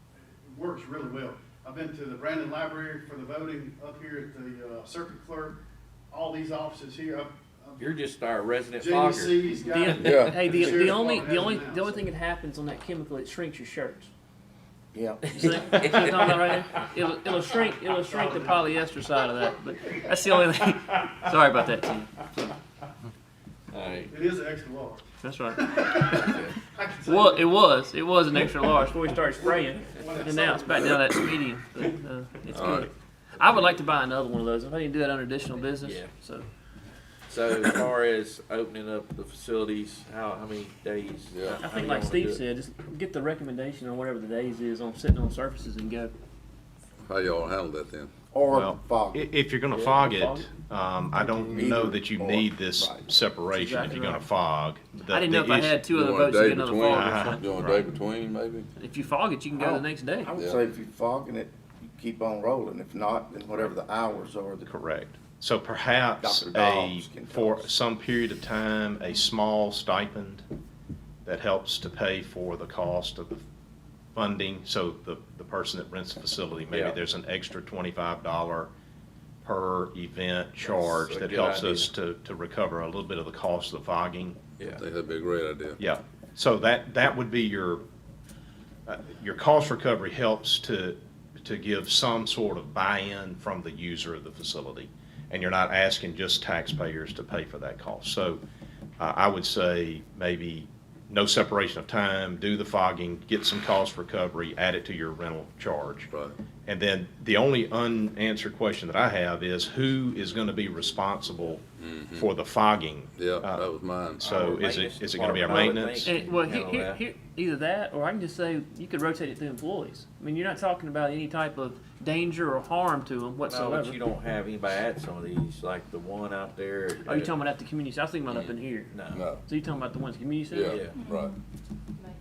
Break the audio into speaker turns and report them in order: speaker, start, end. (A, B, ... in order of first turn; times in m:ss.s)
0:00.4-0:07.9 A
0:07.8-0:10.8 B
0:08.8-0:12.1 A
0:09.7-0:14.1 C
0:10.0-0:10.5 D
0:14.9-0:15.8 E
0:15.3-0:22.5 C
0:15.3-0:16.8 B
0:17.9-0:18.7 A
0:23.7-0:24.1 B
0:23.9-0:27.5 A
0:25.2-0:26.4 C
0:27.1-0:36.5 C
0:29.4-0:31.0 A
0:32.5-0:32.9 D
0:32.5-0:32.8 B
0:35.8-0:36.1 B
0:37.3-0:42.4 B
0:41.3-0:41.6 D
0:41.6-0:46.1 C
0:47.0-0:48.1 D
0:48.3-0:49.2 E
0:48.5-0:55.8 F
0:49.7-0:50.5 C
0:51.5-0:53.1 E
0:53.6-0:54.3 C
0:55.1-0:57.5 C
0:55.9-0:58.7 D
0:56.9-0:57.9 F
0:58.8-1:00.3 C
0:59.6-1:04.7 E
1:00.3-1:00.6 D
1:04.7-1:10.4 F
1:06.2-1:07.7 E
1:11.2-1:13.4 F
1:14.2-1:18.7 F
1:16.7-1:17.0 B
1:19.4-1:24.4 F
1:20.6-1:21.9 B
1:24.6-1:24.8 B
1:24.7-1:25.8 D
1:25.8-1:27.8 F
1:28.9-1:38.4 F
1:39.0-1:56.1 F
1:46.1-1:46.4 D
1:51.8-1:52.3 D
1:53.2-1:54.3 D
1:54.2-1:57.0 B
1:55.5-2:04.0 C
2:03.4-2:07.3 B
2:07.1-2:08.9 C
2:08.9-2:09.3 B
2:09.1-2:09.4 D
2:09.4-2:10.8 C
2:10.5-2:11.3 D
2:10.7-2:11.0 B